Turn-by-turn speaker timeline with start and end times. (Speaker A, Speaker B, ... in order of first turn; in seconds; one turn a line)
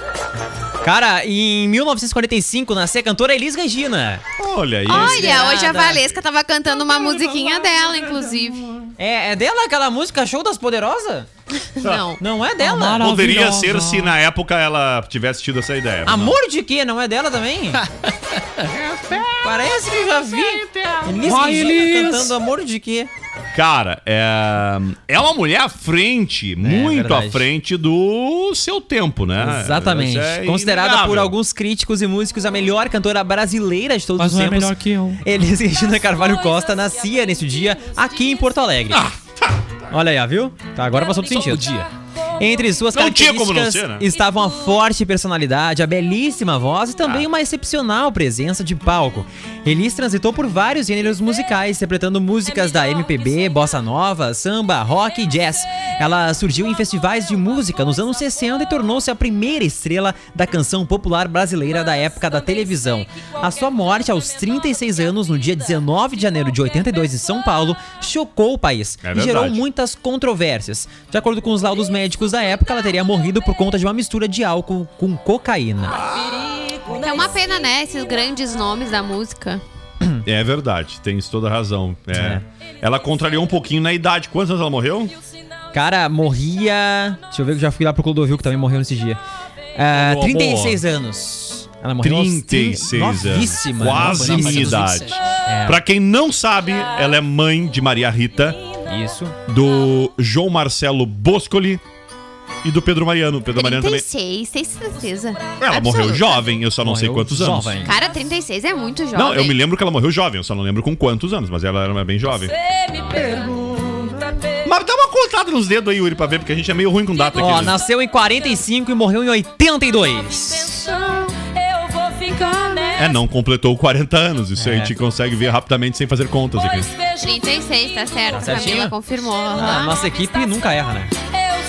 Speaker A: 0.8-4.2
Speaker B: 4.4-6.2
Speaker A: 4.9-6.0
Speaker C: 4.9-8.7
Speaker B: 6.9-8.9
Speaker A: 9.0-11.3
Speaker C: 11.8-12.2
Speaker B: 11.8-12.1
Speaker A: 12.2-13.7
Speaker B: 12.7-16.4
Speaker A: 16.1-17.8
Speaker B: 18.6-19.3
Speaker A: 19.4-23.1
Speaker B: 20.6-22.3
Speaker B: 23.5-31.4
Speaker A: 26.6-27.4
Speaker A: 29.4-39.1
Speaker D: 34.2-35.2
Speaker B: 38.9-39.8
Speaker A: 39.9-41.6
Speaker D: 41.2-41.9
Speaker A: 42.4-76.0
Speaker B: 42.9-44.1
Speaker B: 69.0-69.6
Speaker B: 75.9-76.5
Speaker C: 76.9-79.6
Speaker B: 80.2-85.2
Speaker A: 82.1-82.4
Speaker A: 85.7-89.2
Speaker A: 89.8-94.8
Speaker B: 89.9-90.8
Speaker B: 92.0-98.6
Speaker D: 93.8-95.2
Speaker A: 95.5-95.8
Speaker A: 98.9-99.4
Speaker B: 99.5-101.8
Speaker B: 102.6-104.0
Speaker C: 103.5-106.5
Speaker B: 105.6-107.8
Speaker A: 106.8-107.9
Speaker C: 107.8-109.5
Speaker B: 109.2-112.5
Speaker B: 113.2-117.8
Speaker A: 117.4-121.1
Speaker B: 122.9-126.9
Speaker A: 124.6-124.9
Speaker C: 127.2-130.0
Speaker A: 128.3-128.9
Speaker A: 129.6-131.1